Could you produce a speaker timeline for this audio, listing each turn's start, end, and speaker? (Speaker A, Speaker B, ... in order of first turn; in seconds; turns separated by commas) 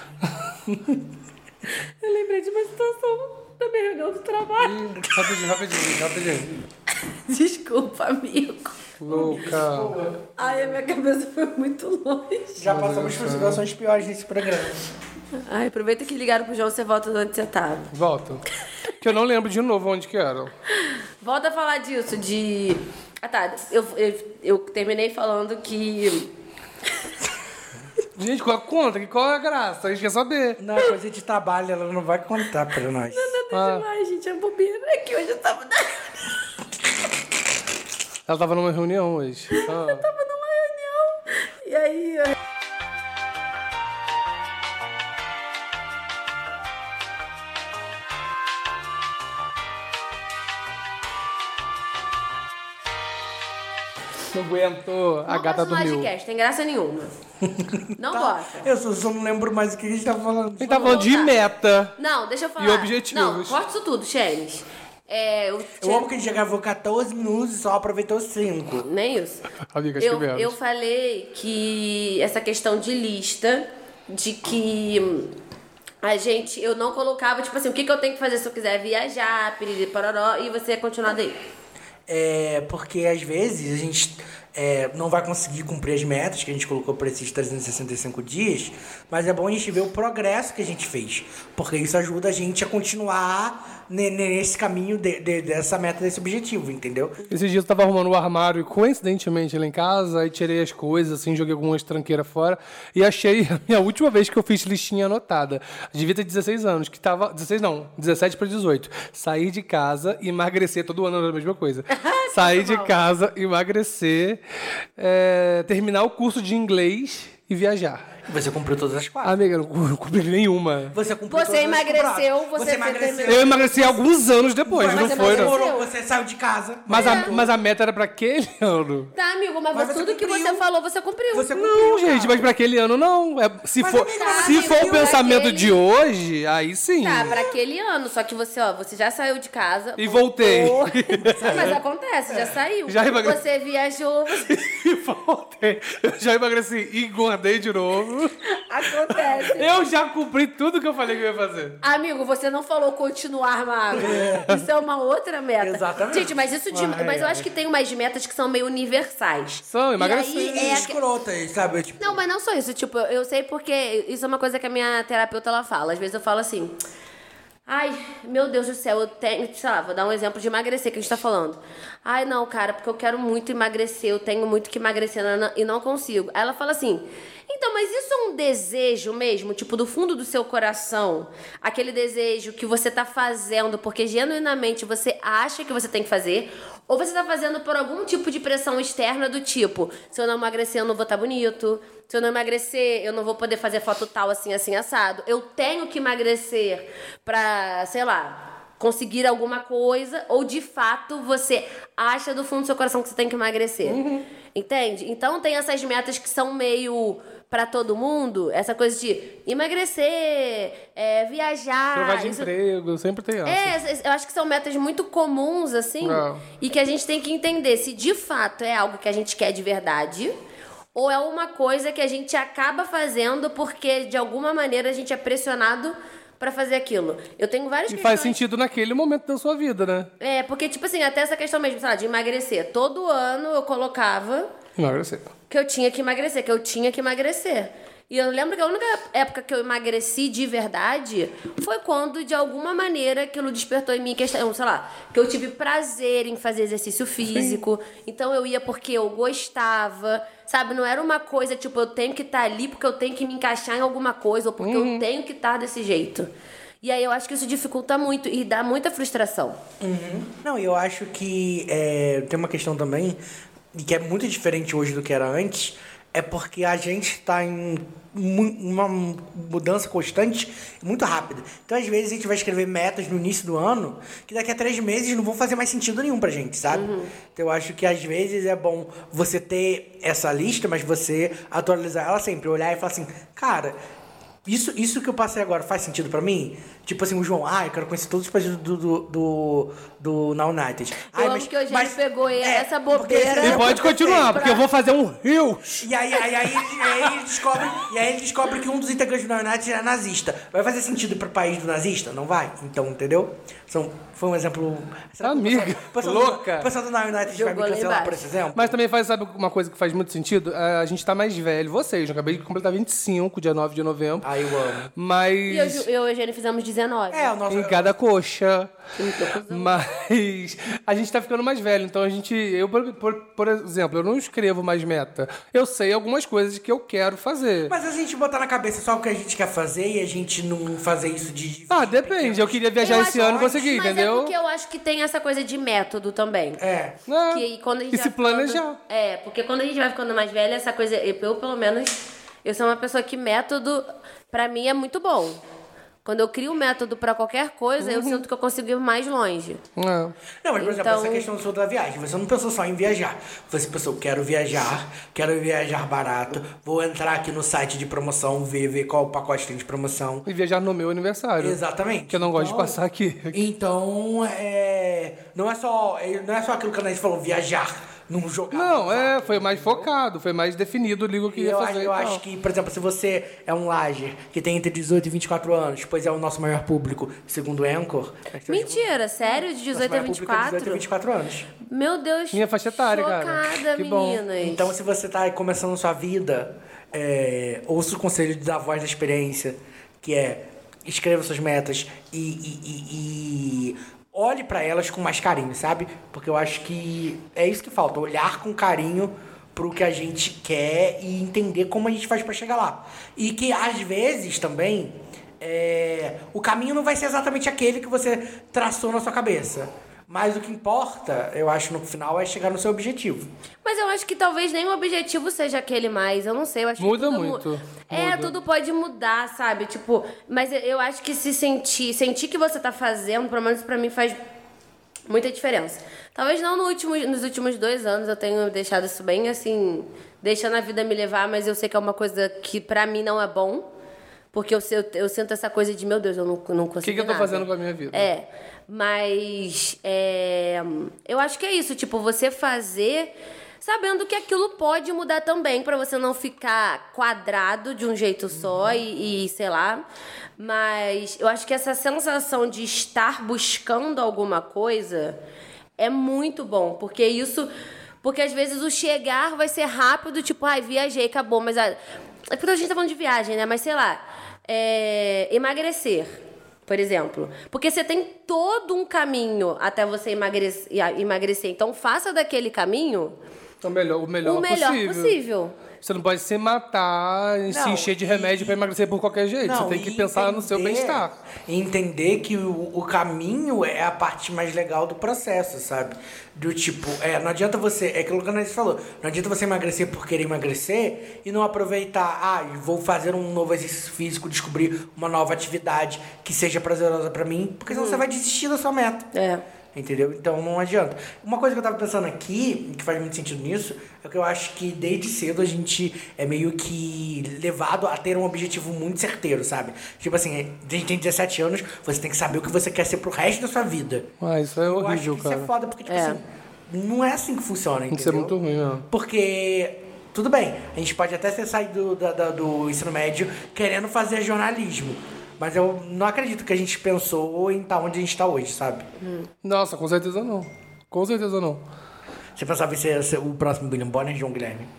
Speaker A: 1.9-4.8, Speaker B: 4.6-6.6, Speaker A: 7.0-9.4, Speaker B: 9.0-10.0, Speaker C: 9.1-10.2, Speaker A: 10.4-12.6, Speaker C: 12.6-14.9, Speaker B: 12.7-13.6, Speaker A: 15.4-17.9, Speaker B: 17.9-18.4, Speaker B: 19.0-20.5, Speaker A: 20.9-26.3, Speaker B: 28.2-30.6, Speaker C: 30.6-33.3, Speaker A: 33.1-36.1, Speaker B: 33.5-33.9, Speaker B: 38.3-40.1, Speaker A: 39.5-42.4, Speaker B: 54.3-56.1, Speaker A: 55.3-57.1, Speaker C: 57.4-61.1, Speaker A: 58.0-58.7, Speaker B: 60.6-62.0, Speaker A: 60.8-61.3, Speaker A: 62.0-66.1, Speaker B: 62.6-63.6, Speaker C: 65.8-68.9, Speaker A: 68.8-69.4, Speaker B: 69.7-70.5, Speaker A: 70.0-75.3, Speaker A: 76.0-81.4, Speaker C: 82.1-97.2, Speaker B: 97.3-114.4, Speaker A: 111.9-112.9, Speaker B: 115.0-118.1, Speaker C: 118.3-119.3, Speaker B: 119.2-121.0, Speaker C: 120.9-124.0, Speaker A: 121.3-123.5, Speaker B: 123.3-125.5, Speaker C: 124.7-127.5, Speaker A: 124.8-125.9, Speaker B: 126.9-129.1, Speaker A: 126.9-127.3, Speaker A: 129.1-131.5, Speaker C: 129.7-130.7, Speaker C: 131.3-132.4, Speaker B: 131.5-137.4, Speaker C: 133.8-135.2, Speaker A: 134.1-135.8, Speaker A: 137.0-144.6, Speaker B: 140.0-141.8, Speaker C: 141.2-141.8, Speaker B: 142.3-143.4, Speaker B: 144.4-148.4, Speaker A: 148.5-149.8, Speaker B: 149.1-151.8, Speaker A: 151.8-161.0, Speaker C: 153.9-154.6, Speaker C: 155.6-157.4, Speaker B: 159.7-160.9, Speaker C: 160.4-162.2, Speaker A: 162.0-166.8, Speaker A: 167.7-204.0, Speaker B: 203.8-204.2, Speaker A: 204.5-212.5, Speaker B: 211.9-213.8, Speaker A: 213.4-220.3, Speaker B: 216.0-216.4, Speaker A: 220.9-228.4, Speaker B: 227.9-230.1, Speaker A: 230.2-234.5, Speaker B: 234.8-235.3, Speaker A: 235.5-256.3, Speaker B: 247.3-247.6, Speaker B: 254.6-255.1, Speaker A: 256.8-259.6, Speaker C: 259.8-263.2, Speaker C: 263.7-283.7, Speaker A: 276.7-277.1, Speaker C: 284.5-294.6, Speaker A: 291.1-294.7, Speaker B: 293.4-295.9, Speaker C: 295.8-308.8, Speaker B: 296.8-297.1, Speaker B: 305.2-306.7, Speaker A: 307.2-308.2, Speaker B: 308.6-314.3, Speaker C: 314.2-314.9, Speaker B: 314.9-315.9, Speaker A: 315.5-317.3, Speaker C: 317.1-318.0, Speaker B: 317.5-318.7, Speaker A: 319.0-319.8, Speaker B: 319.5-327.8, Speaker C: 327.7-333.5, Speaker B: 331.7-334.3, Speaker A: 332.8-336.6, Speaker C: 336.6-337.0, Speaker B: 337.1-338.8, Speaker A: 337.3-345.4, Speaker A: 346.1-349.6, Speaker B: 347.8-348.2, Speaker B: 349.8-350.1, Speaker C: 350.4-360.3, Speaker A: 350.6-351.3, Speaker B: 360.3-361.6, Speaker C: 361.4-362.8, Speaker B: 362.1-363.4, Speaker C: 363.3-369.9, Speaker B: 368.5-372.2, Speaker C: 371.3-378.9, Speaker A: 378.5-380.8, Speaker C: 379.7-381.5, Speaker A: 381.6-384.7, Speaker B: 382.3-384.2, Speaker C: 384.4-413.3, Speaker A: 413.6-424.2, Speaker B: 416.8-418.3, Speaker A: 425.1-433.7, Speaker A: 434.3-449.8, Speaker B: 436.8-438.1, Speaker C: 448.3-448.8, Speaker A: 450.4-455.2, Speaker A: 455.8-457.5, Speaker A: 458.0-461.8, Speaker A: 462.3-473.1, Speaker B: 473.6-475.2, Speaker A: 474.2-475.6, Speaker B: 475.8-481.1, Speaker C: 477.5-478.6, Speaker C: 479.4-499.1, Speaker A: 497.7-498.0, Speaker A: 499.1-499.4, Speaker C: 499.7-514.1, Speaker B: 514.2-515.5, Speaker C: 514.6-518.4, Speaker A: 515.9-516.2, Speaker B: 517.9-518.9, Speaker C: 518.9-528.9, Speaker A: 529.0-529.3, Speaker B: 529.4-531.6, Speaker C: 532.4-534.7